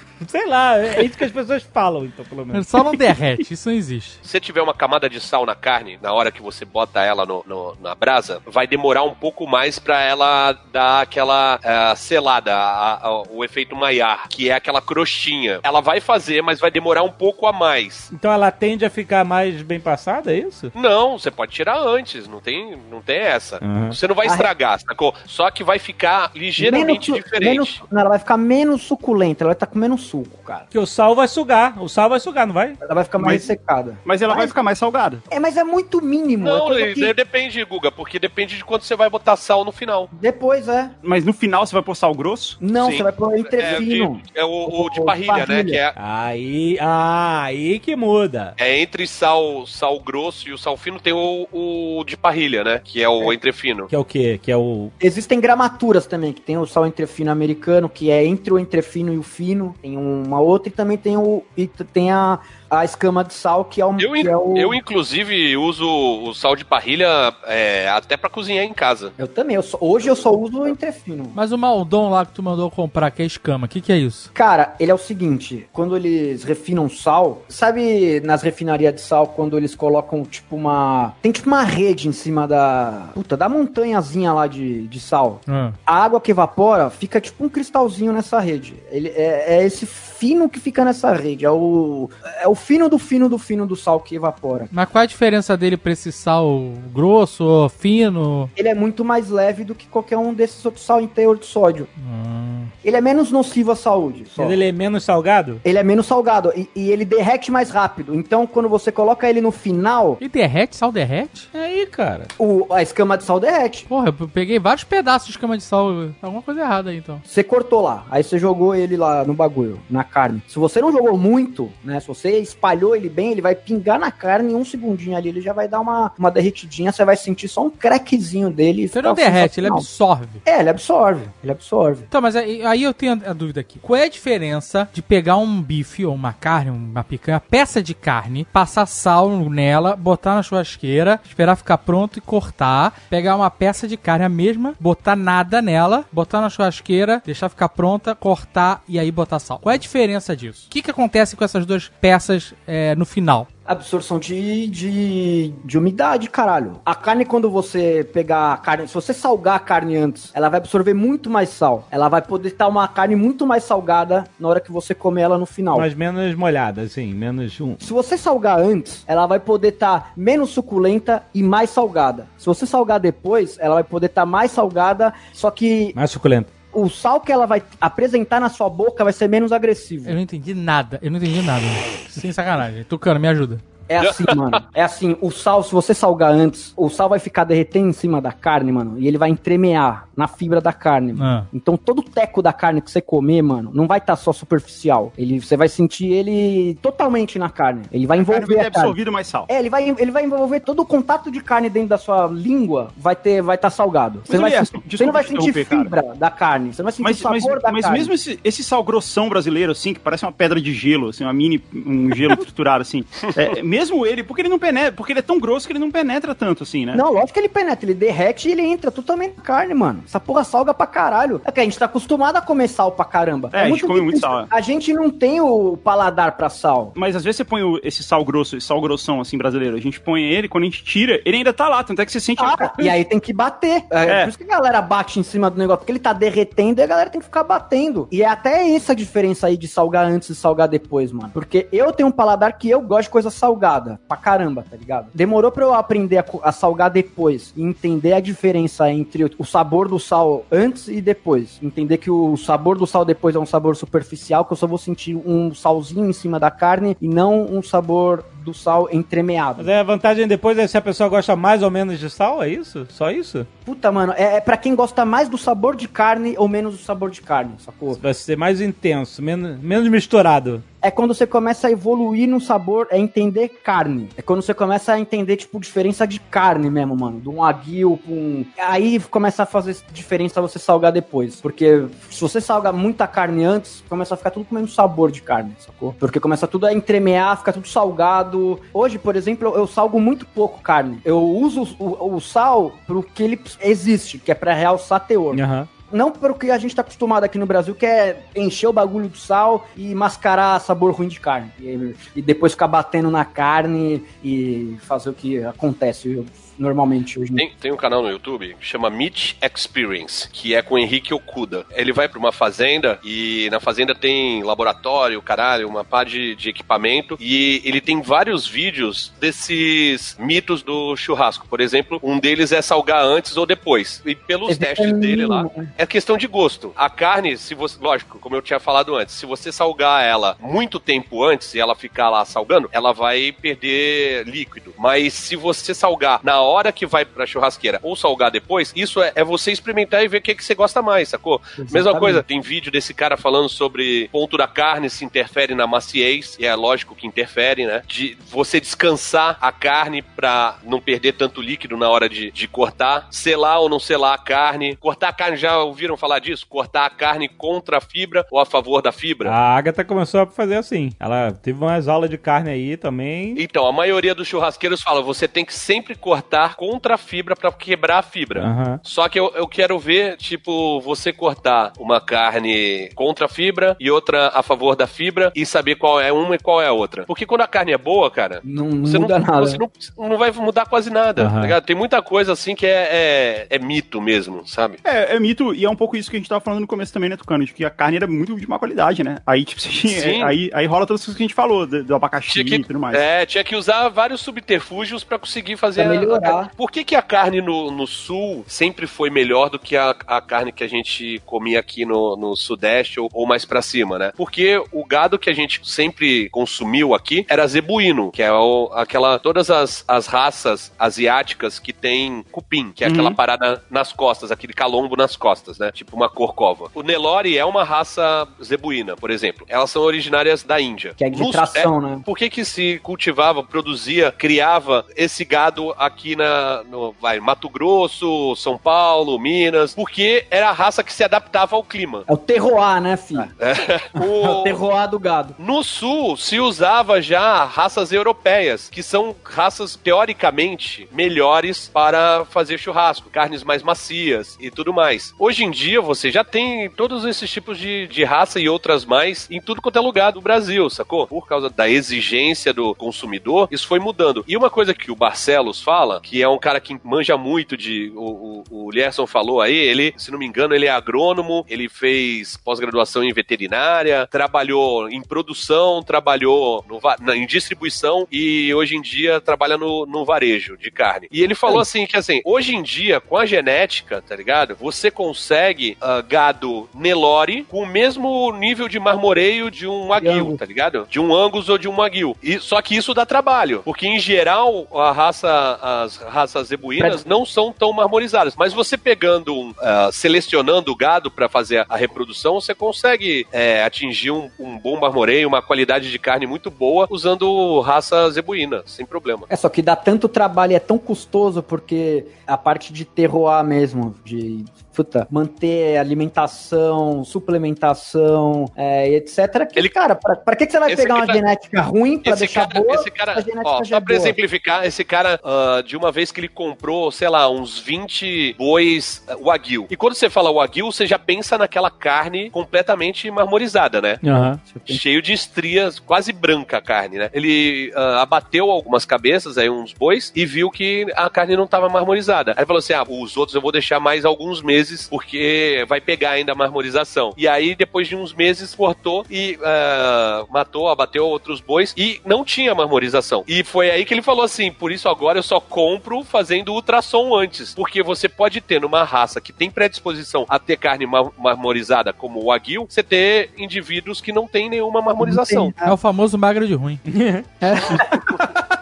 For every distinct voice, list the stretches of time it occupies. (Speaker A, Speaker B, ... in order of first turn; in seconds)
Speaker A: 0.2-2.7, 18.1-20.7, 23.6-24.0, 30.7-32.8, 46.0-48.5, 53.9-54.9, 104.4-105.6, 111.5-112.3, 165.7-167.8, 175.9-176.5, 259.6-263.5, 267.9-270.6, 295.3-295.7, 359.2-363.4, 368.4-368.8, 381.2-381.6, 524.0-524.4, 556.9-557.2
Speaker B: 2.5-4.2, 71.3-74.3, 85.5-85.8, 94.7-98.5, 102.0-102.7, 110.2-111.5, 113.9-117.2, 128.9-130.4, 132.1-153.5, 180.1-183.6, 191.2-191.5, 555.6-556.8
Speaker C: 4.2-18.1, 20.7-27.8, 36.4-40.1, 42.7-45.9, 48.6-53.9, 64.0-69.1, 184.0-184.6, 213.2-213.5, 307.4-359.3, 363.4-384.8, 389.9-390.4, 392.3-432.1, 433.4-434.6, 435.4-499.2, 510.7-511.2, 512.0-524.0, 524.7-555.6
Speaker D: 26.6-30.6, 32.8-34.5, 35.3-37.1, 40.1-40.9, 42.6-45.8, 55.0-64.8, 69.2-71.4, 74.3-94.7, 98.5-101.9, 102.8-104.6, 105.6-110.2, 112.4-113.9, 117.3-129.9, 130.4-132.1, 153.7-165.9, 167.8-175.9, 176.7-180.2, 183.9-198.9, 199.5-208.1, 216.9-226.9, 232.4-259.7, 263.6-268.0, 270.8-307.4, 324.5-325.7, 341.6-342.2, 378.4-379.6, 395.8-396.5, 421.0-422.1, 432.1-433.3, 434.0-435.4, 480.0-480.4, 499.3-514.1, 524.4-524.8, 555.0-555.7, 557.4-558.3
Speaker E: 33.2-33.4, 34.0-35.2, 41.0-42.6, 198.1-199.5, 204.3-205.9, 207.0-217.0, 223.5-224.5, 226.9-232.9, 234.0-234.3, 384.8-393.0, 412.8-413.2